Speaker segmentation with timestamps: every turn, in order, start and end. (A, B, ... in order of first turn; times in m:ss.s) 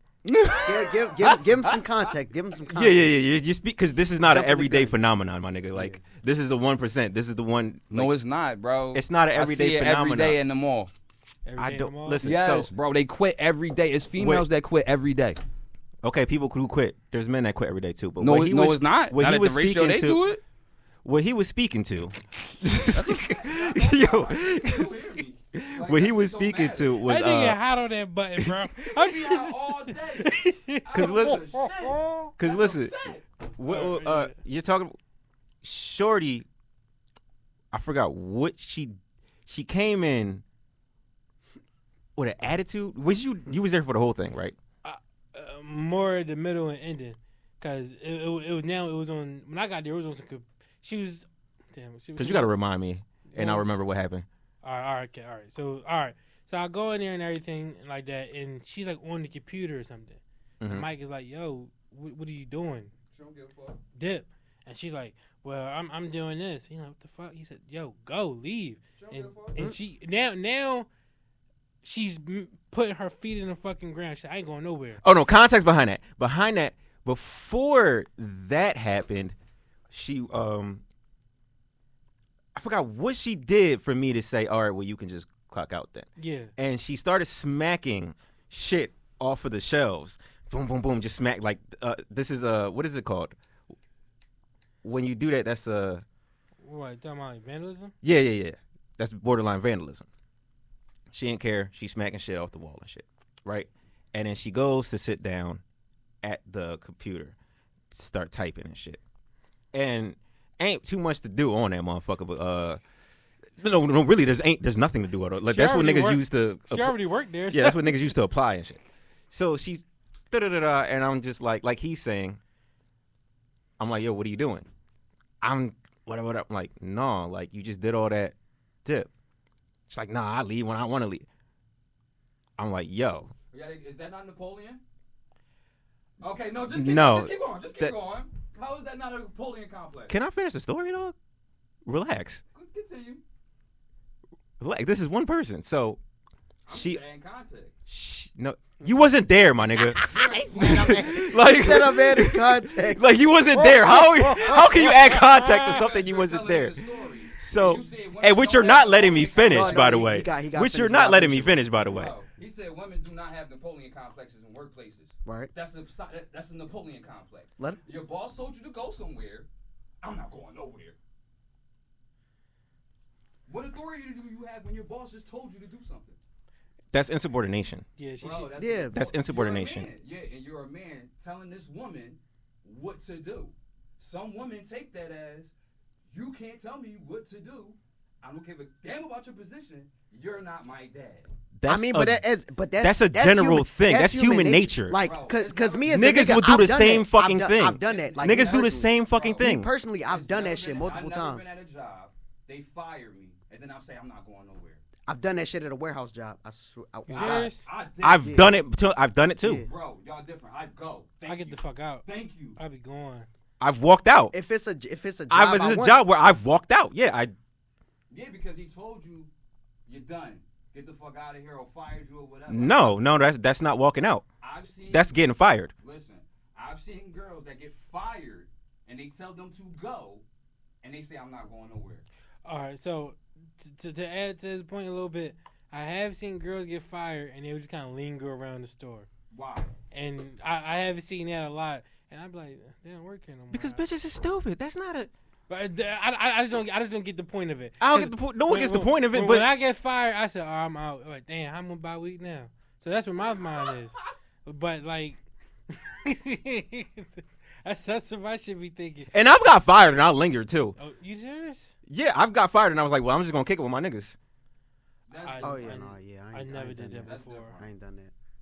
0:00.2-0:01.8 A
0:00.6-0:03.2 B
0:02.7-0:08.1 C
0:04.2-0:05.0 B
0:05.7-0:06.0 B
0:07.9-0:10.9 A
0:08.9-0:10.4 C
0:11.4-0:12.3 D
0:11.6-0:12.7 C
0:12.2-0:15.4 A
0:14.2-0:14.4 C
0:16.0-0:20.2 C
0:18.2-0:20.4 A
0:21.0-0:27.6 C
0:22.9-0:26.9 A
0:27.0-0:32.3 D
0:28.8-0:33.2 A
0:30.9-0:31.4 C
0:32.4-0:33.0 C
0:33.5-0:35.0 C
0:33.6-0:34.3 D
0:35.6-0:36.4 C
0:37.7-0:39.0 C
0:39.5-0:40.4 C
0:42.2-0:44.5 C
0:44.8-0:52.5 D
0:52.2-0:54.2 C
0:53.3-0:53.7 D
0:54.6-1:02.9 D
1:00.6-1:00.9 C
1:03.1-1:03.8 A
1:04.0-1:10.9 D
1:09.0-1:09.6 A
1:11.8-1:15.0 D
1:15.0-1:19.3 C
1:19.9-1:20.8 C
1:22.5-1:33.3 C
1:26.2-1:26.5 D
1:34.8-1:36.0 C
1:36.6-1:37.9 D
1:38.0-1:40.0 C
1:41.1-1:45.6 C
1:46.2-1:47.3 C
1:47.9-1:49.0 C
1:49.7-1:52.8 C
1:53.6-1:57.0 C
1:55.5-1:58.0 D
1:57.5-2:02.4 C
2:03.8-2:04.6 C
2:05.4-2:08.3 C
2:09.9-2:11.2 C
2:12.6-2:13.3 C
2:13.5-2:14.8 A
2:16.2-2:20.1 A
2:16.7-2:17.9 C
2:20.1-2:21.1 C
2:21.8-2:22.4 C
2:22.5-2:23.2 A
2:24.6-2:26.0 C
2:26.7-2:27.7 A
2:26.7-2:27.0 C
2:27.9-2:36.8 C
2:30.0-2:31.2 A
2:30.2-2:33.1 B
2:34.4-2:40.2 A
2:37.4-2:42.1 C
2:39.4-2:41.6 B
2:41.9-2:49.5 A
2:45.2-2:45.5 B
2:50.0-2:51.0 A
2:53.5-2:56.2 A
2:56.9-2:57.8 C
2:58.0-2:58.6 D
2:58.2-3:05.5 A
2:58.6-2:59.0 B
2:58.9-2:59.9 C
3:06.1-3:11.3 A
3:11.6-3:12.2 C
3:11.6-3:21.5 B
3:12.8-3:15.0 C
3:15.0-3:16.0 A
3:15.9-3:19.7 C
3:17.8-3:19.5 A
3:20.1-3:24.8 A
3:25.0-3:27.5 B
3:27.1-3:27.7 D
3:27.1-3:28.4 A
3:28.0-3:29.6 C
3:28.2-3:28.6 B
3:29.4-3:29.7 B
3:29.6-3:32.6 A
3:31.2-3:33.3 D
3:33.6-3:34.3 C
3:34.3-3:36.0 B
3:35.3-3:37.3 C
3:38.1-3:39.3 A
3:39.8-3:43.2 A
3:42.5-3:44.2 C
3:44.4-3:45.2 A
3:44.9-3:45.7 C
3:45.8-3:50.2 A
3:50.8-3:52.0 A
3:52.4-3:59.1 D
3:59.3-3:59.7 A
3:59.9-4:03.8 D
4:03.5-4:05.1 C
4:05.5-4:19.1 D
4:07.8-4:09.5 C
4:19.1-4:20.8 C
4:20.8-4:21.7 D
4:21.9-4:24.2 C
4:25.1-4:25.8 A
4:25.2-4:27.6 D
4:25.4-4:28.1 B
4:27.0-4:27.7 A